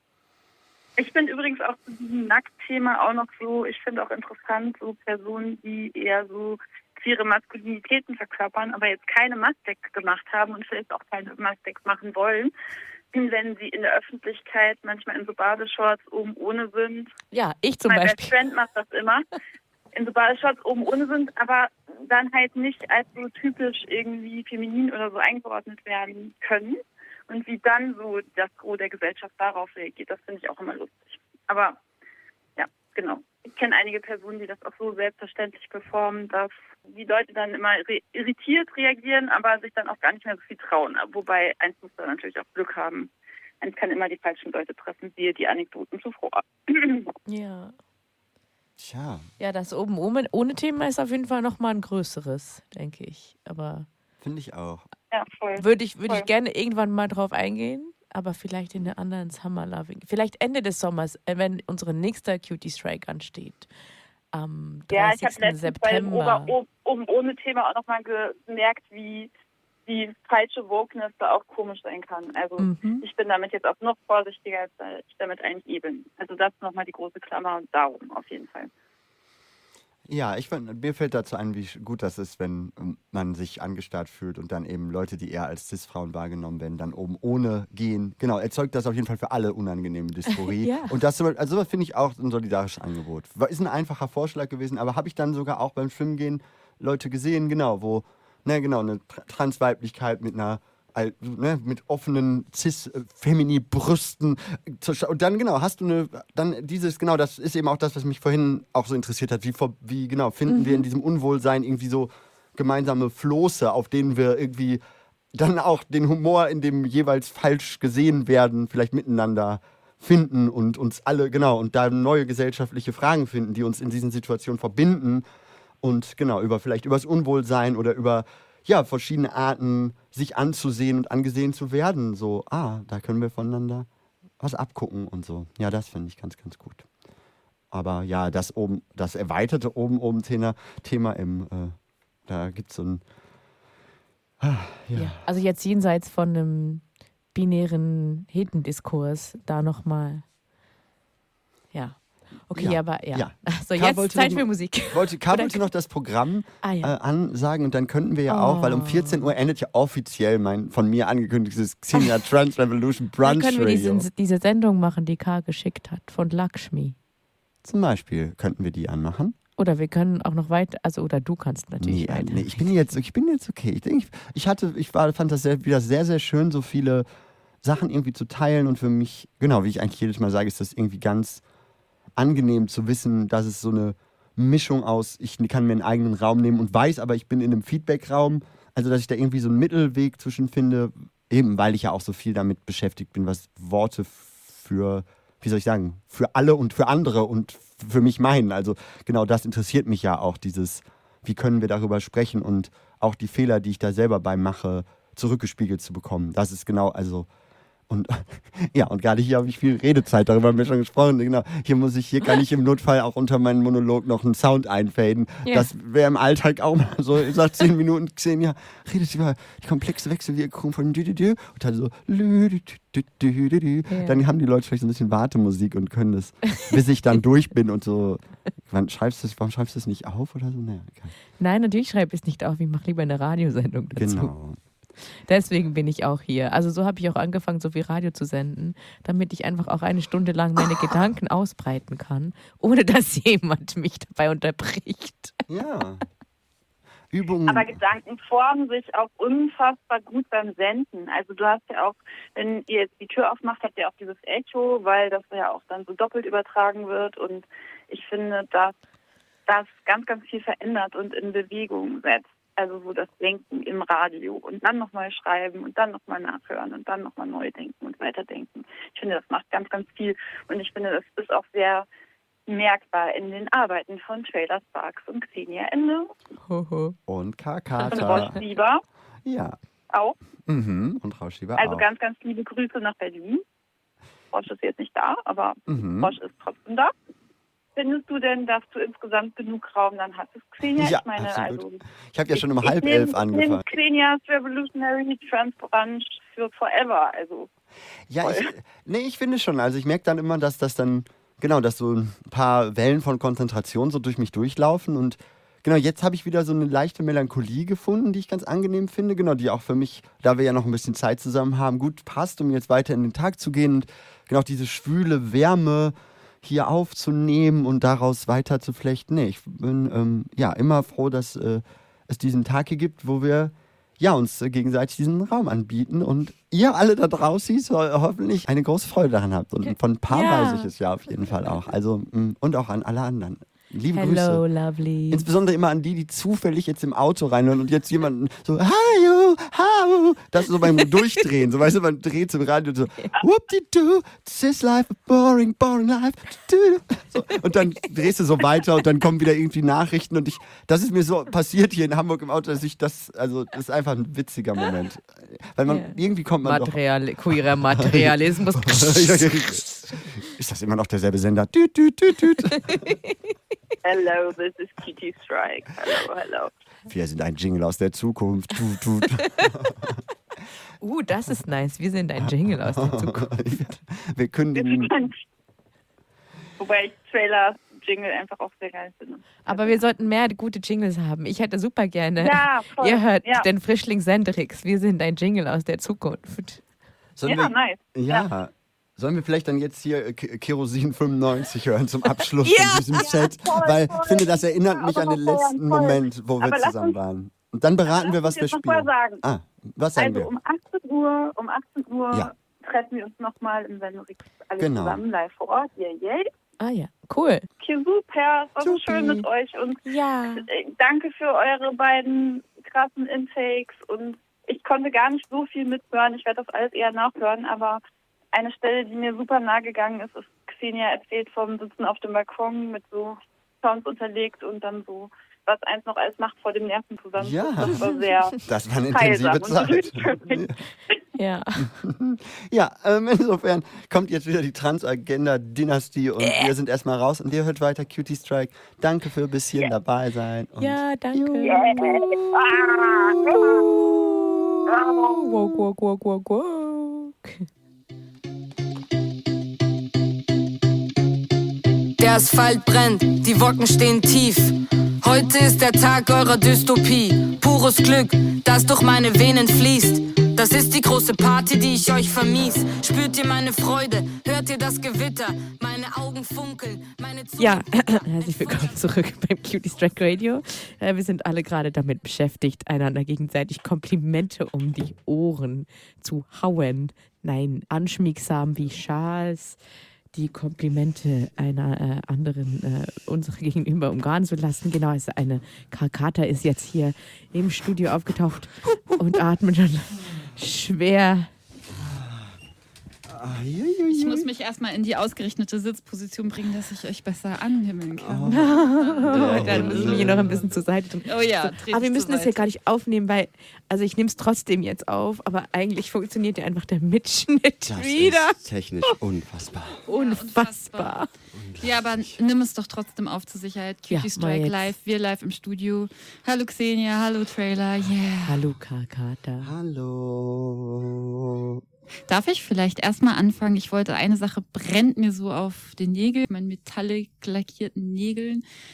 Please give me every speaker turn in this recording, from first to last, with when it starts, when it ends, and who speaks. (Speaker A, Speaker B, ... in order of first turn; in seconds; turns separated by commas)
Speaker A: 1.0-12.5, Speaker A: 13.1-17.1, Speaker B: 17.3-18.3, Speaker A: 17.9-19.2, Speaker A: 19.9-31.8, Speaker A: 32.6-43.1, Speaker A: 43.6-47.1, Speaker B: 47.3-47.7, Speaker C: 48.8-49.2, Speaker B: 49.4-53.9, Speaker C: 54.2-54.8, Speaker A: 55.1-56.3, Speaker B: 55.6-63.7, Speaker B: 64.3-66.5, Speaker A: 64.9-69.3, Speaker A: 69.9-78.7, Speaker B: 72.6-73.0, Speaker C: 80.1-114.8, Speaker B: 90.4-91.0, Speaker B: 110.5-110.8, Speaker C: 115.3-125.2, Speaker C: 125.8-133.9, Speaker C: 134.4-136.8, Speaker C: 137.7-141.7, Speaker C: 142.2-143.0, Speaker C: 144.4-145.2, Speaker B: 144.9-150.2, Speaker B: 151.7-155.7, Speaker C: 152.5-164.1, Speaker B: 156.6-156.9, Speaker B: 158.3-159.3, Speaker B: 163.2-166.9, Speaker C: 167.6-169.3, Speaker B: 169.6-172.7, Speaker C: 171.8-177.1, Speaker C: 177.6-181.4, Speaker C: 182.2-207.3, Speaker C: 207.9-231.1, Speaker B: 223.9-224.2, Speaker B: 231.4-234.3, Speaker C: 233.9-234.6, Speaker B: 235.0-245.4, Speaker C: 245.5-246.0, Speaker C: 247.1-247.8, Speaker A: 247.5-258.7, Speaker A: 259.5-271.9, Speaker A: 272.5-276.1, Speaker B: 276.5-276.9, Speaker C: 277.1-278.4, Speaker A: 277.9-278.8, Speaker B: 277.9-278.3, Speaker C: 279.2-279.6, Speaker C: 280.5-281.9, Speaker A: 281.6-283.4, Speaker A: 284.3-286.9, Speaker C: 285.7-286.1, Speaker A: 287.8-291.8, Speaker C: 290.8-293.8, Speaker A: 292.3-297.5, Speaker C: 298.1-334.4, Speaker A: 298.2-298.5, Speaker B: 330.1-330.7, Speaker B: 333.9-335.3, Speaker C: 335.1-356.8, Speaker B: 355.6-359.7, Speaker C: 357.7-359.6, Speaker C: 360.2-362.6, Speaker B: 362.5-363.3, Speaker A: 363.8-366.5, Speaker C: 366.9-369.3, Speaker B: 370.8-373.3, Speaker C: 372.6-374.9, Speaker A: 374.5-375.1, Speaker A: 376.6-379.8, Speaker B: 379.4-386.6, Speaker A: 382.2-383.5, Speaker C: 387.2-400.3, Speaker A: 387.3-388.3, Speaker B: 392.4-393.1, Speaker A: 393.0-397.0, Speaker A: 397.9-399.2, Speaker A: 400.0-406.3, Speaker C: 404.6-405.0, Speaker B: 406.6-407.5, Speaker A: 407.6-417.8, Speaker C: 408.6-409.3, Speaker B: 409.9-410.5, Speaker A: 418.3-428.4, Speaker C: 427.2-427.8, Speaker B: 427.7-428.0, Speaker C: 428.4-430.6, Speaker A: 428.9-430.4, Speaker B: 431.1-431.7, Speaker C: 431.8-443.4, Speaker B: 436.2-436.5, Speaker B: 440.6-442.0, Speaker A: 441.4-443.6, Speaker B: 443.3-444.5, Speaker B: 445.1-447.4, Speaker D: 452.0-468.7, Speaker B: 467.4-479.6, Speaker B: 480.1-491.3, Speaker C: 491.8-492.3, Speaker C: 493.1-494.3, Speaker E: 493.9-500.5, Speaker C: 498.0-500.4, Speaker B: 498.3-508.4, Speaker E: 501.1-502.5, Speaker C: 507.6-509.8, Speaker E: 509.9-511.1, Speaker B: 509.9-511.1, Speaker C: 511.3-512.0, Speaker E: 511.6-518.5, Speaker B: 513.9-514.7, Speaker B: 518.2-519.5, Speaker C: 519.4-521.0, Speaker E: 522.1-528.4